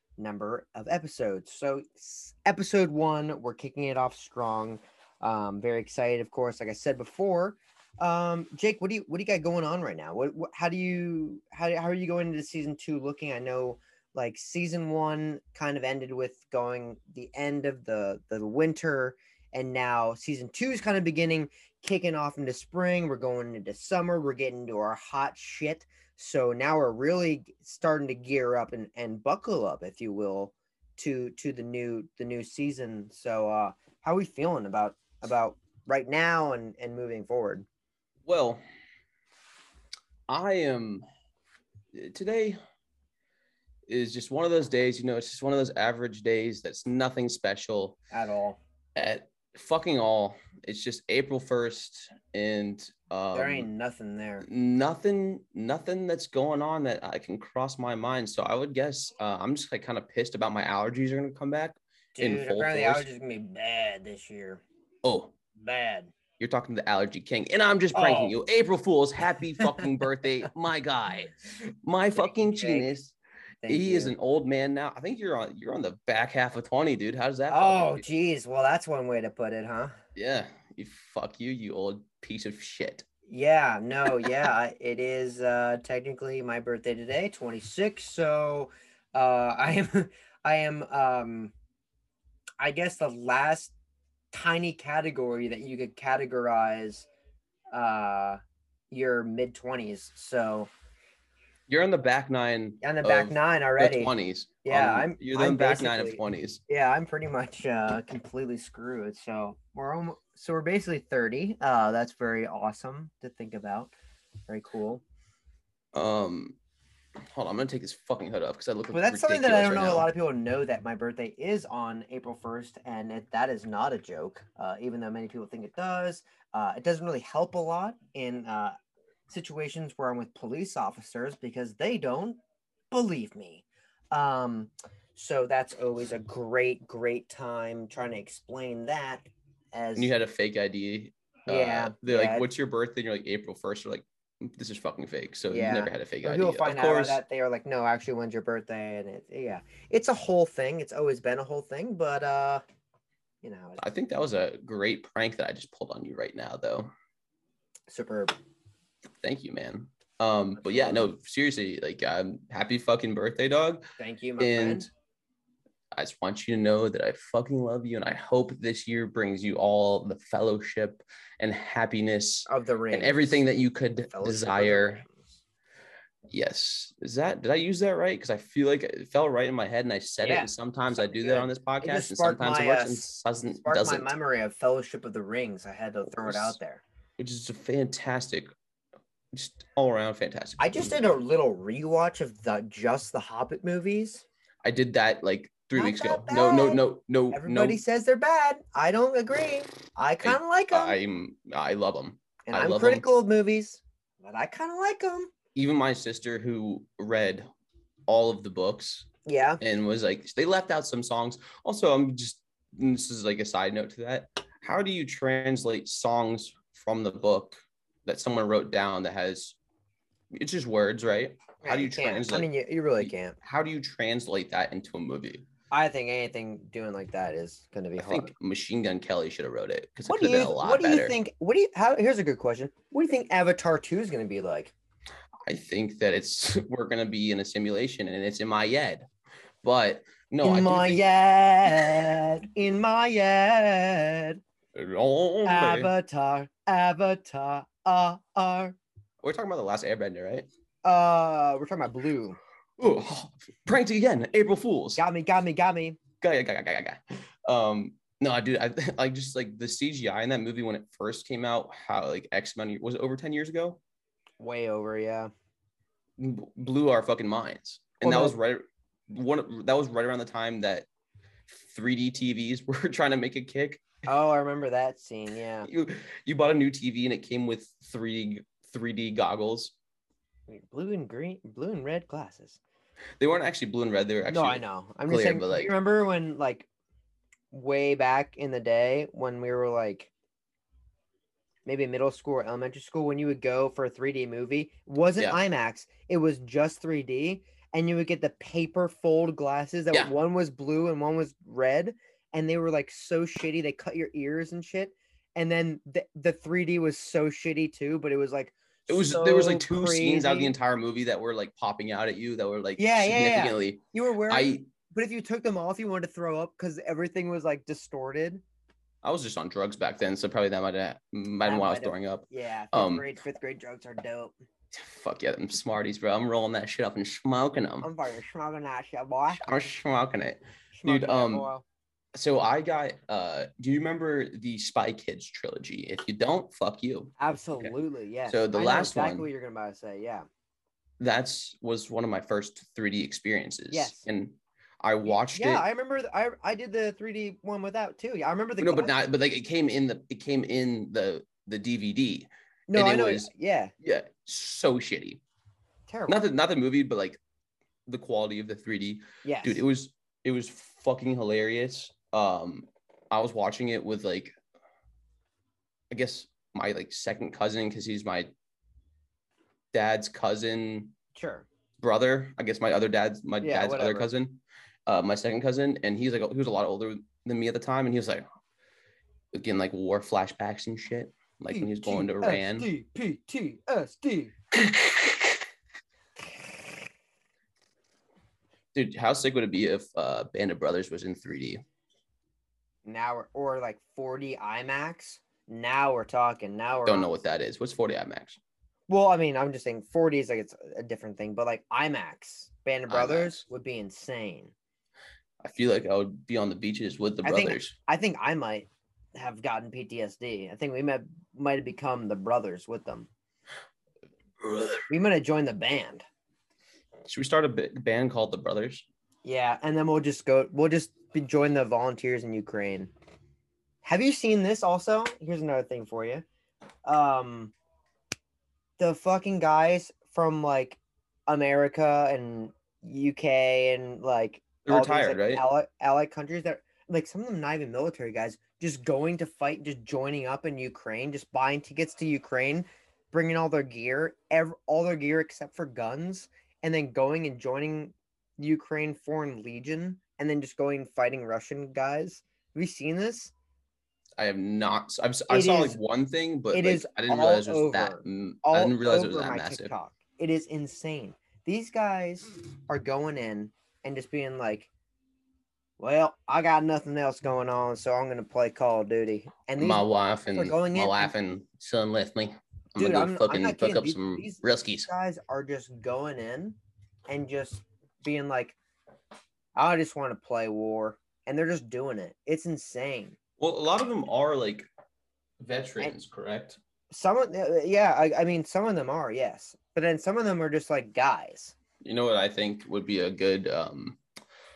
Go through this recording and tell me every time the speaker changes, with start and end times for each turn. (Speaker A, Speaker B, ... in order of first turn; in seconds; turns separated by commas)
Speaker A: 0.2-37.7, Speaker B: 38.3-38.6, Speaker B: 40.3-41.0, Speaker B: 41.9-42.6, Speaker B: 43.9-48.0, Speaker A: 48.1-48.6, Speaker B: 49.0-53.7, Speaker A: 53.3-54.5, Speaker B: 54.4-63.1, Speaker A: 62.2-64.6, Speaker B: 65.0-65.3, Speaker A: 65.6-66.1, Speaker B: 66.4-73.2, Speaker A: 67.9-68.4, Speaker A: 72.2-72.9, Speaker A: 73.6-74.2, Speaker B: 73.7-78.0, Speaker A: 77.5-79.9, Speaker B: 80.2-83.0, Speaker A: 83.3-91.5, Speaker A: 92.6-93.7, Speaker A: 94.3-97.1, Speaker A: 97.7-98.4, Speaker A: 98.9-100.7, Speaker B: 101.7-106.6, Speaker A: 102.8-104.1, Speaker A: 104.6-113.9, Speaker A: 114.5-115.0, Speaker B: 115.9-116.6, Speaker B: 117.3-120.1, Speaker A: 118.9-128.8, Speaker A: 129.3-132.4, Speaker A: 132.9-140.1, Speaker B: 140.0-147.2, Speaker A: 141.5-142.5, Speaker A: 145.5-152.6, Speaker A: 153.4-153.8, Speaker B: 153.8-156.9, Speaker A: 157.9-158.3, Speaker B: 159.2-163.8, Speaker A: 164.0-164.9, Speaker B: 164.4-164.9, Speaker B: 165.9-175.0, Speaker A: 172.5-173.4, Speaker A: 174.1-175.4, Speaker B: 176.3-184.2, Speaker A: 180.2-186.8, Speaker B: 186.2-186.6, Speaker B: 187.2-188.5, Speaker B: 189.3-191.0, Speaker A: 190.6-194.2, Speaker B: 194.6-197.8, Speaker A: 195.8-201.0, Speaker B: 200.2-203.1, Speaker A: 202.5-205.3, Speaker B: 205.6-207.5, Speaker B: 208.1-209.1, Speaker A: 209.3-209.6, Speaker B: 209.6-219.6, Speaker B: 220.3-225.4, Speaker A: 221.6-223.4, Speaker A: 225.7-228.3, Speaker B: 228.0-231.2, Speaker A: 230.1-234.7, Speaker B: 235.5-239.1, Speaker B: 239.6-241.0, Speaker A: 240.4-244.4, Speaker B: 244.8-245.9, Speaker A: 245.4-248.8, Speaker B: 249.2-250.5, Speaker A: 250.8-252.4, Speaker B: 252.8-255.0, Speaker A: 255.0-256.0, Speaker B: 256.2-263.8, Speaker A: 264.4-265.3, Speaker B: 266.2-270.9, Speaker A: 268.0-268.4, Speaker B: 271.5-273.8, Speaker A: 274.1-275.7, Speaker B: 275.6-279.7, Speaker A: 280.5-282.6, Speaker B: 283.2-285.7, Speaker A: 284.3-286.7, Speaker A: 287.5-290.1, Speaker A: 291.7-310.5, Speaker B: 308.9-314.6, Speaker A: 312.8-318.4, Speaker B: 319.0-323.1, Speaker A: 321.4-324.4, Speaker B: 324.7-327.9, Speaker A: 327.8-329.4, Speaker B: 329.3-331.5, Speaker A: 330.7-331.6, Speaker B: 332.1-337.7, Speaker A: 337.2-340.3, Speaker B: 338.3-339.3, Speaker B: 341.0-345.6, Speaker A: 343.7-344.1, Speaker A: 345.1-348.9, Speaker B: 348.6-353.3, Speaker A: 352.7-353.7, Speaker B: 353.8-355.2, Speaker A: 355.9-356.2, Speaker B: 356.1-357.2, Speaker B: 357.9-364.3, Speaker A: 359.2-359.6, Speaker B: 365.9-368.3, Speaker B: 369.7-370.9, Speaker A: 371.1-371.5, Speaker B: 371.8-378.2, Speaker A: 373.4-374.1, Speaker B: 379.3-382.7, Speaker A: 381.5-384.4, Speaker B: 388.8-391.6, Speaker A: 392.9-397.1, Speaker B: 396.9-398.4, Speaker A: 398.9-404.5, Speaker B: 402.9-403.4, Speaker B: 405.4-407.8, Speaker A: 407.2-413.1, Speaker B: 414.4-414.8, Speaker A: 414.9-416.0, Speaker B: 417.1-418.9, Speaker A: 419.2-422.9, Speaker A: 423.8-426.2, Speaker A: 426.9-427.5, Speaker A: 428.8-453.3, Speaker B: 434.7-435.4, Speaker B: 454.2-459.7, Speaker A: 455.3-455.8, Speaker A: 456.5-464.7, Speaker A: 465.8-471.1, Speaker B: 469.6-474.9, Speaker A: 472.8-478.6, Speaker A: 479.6-483.2, Speaker B: 483.4-484.6, Speaker B: 485.4-486.6, Speaker A: 486.9-491.6, Speaker B: 491.8-494.0